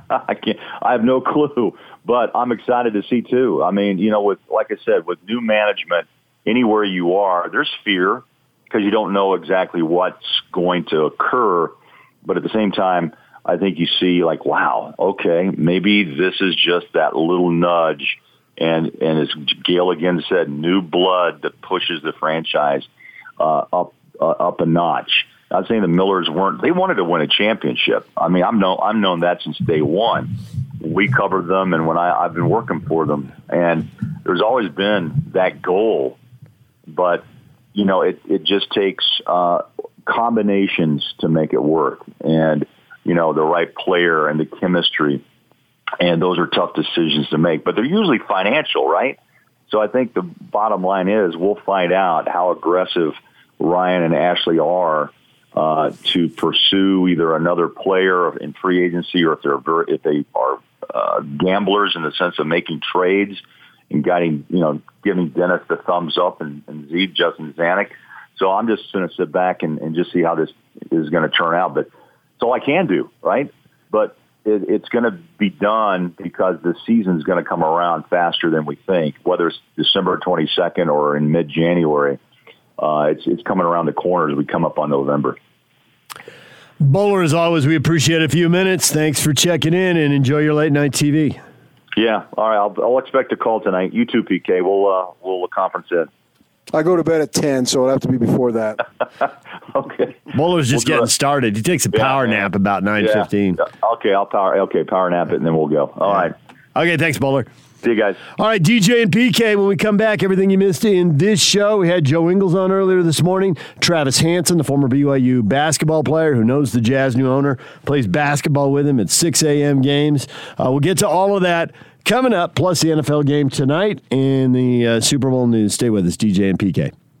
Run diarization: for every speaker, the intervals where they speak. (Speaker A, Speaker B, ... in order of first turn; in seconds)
Speaker A: 0.1-11.7, 12.2-22.9, 23.4-36.2, 36.9-45.2, 46.0-49.2, 49.7-71.9, 72.4-82.2, 82.8-85.4, 92.0-96.1, 99.7-101.1, 101.9-106.3, 107.8-108.2
Speaker B: 86.8-91.4, 100.3-103.6, 106.7-107.5, 108.3-126.9
Speaker C: 96.7-98.8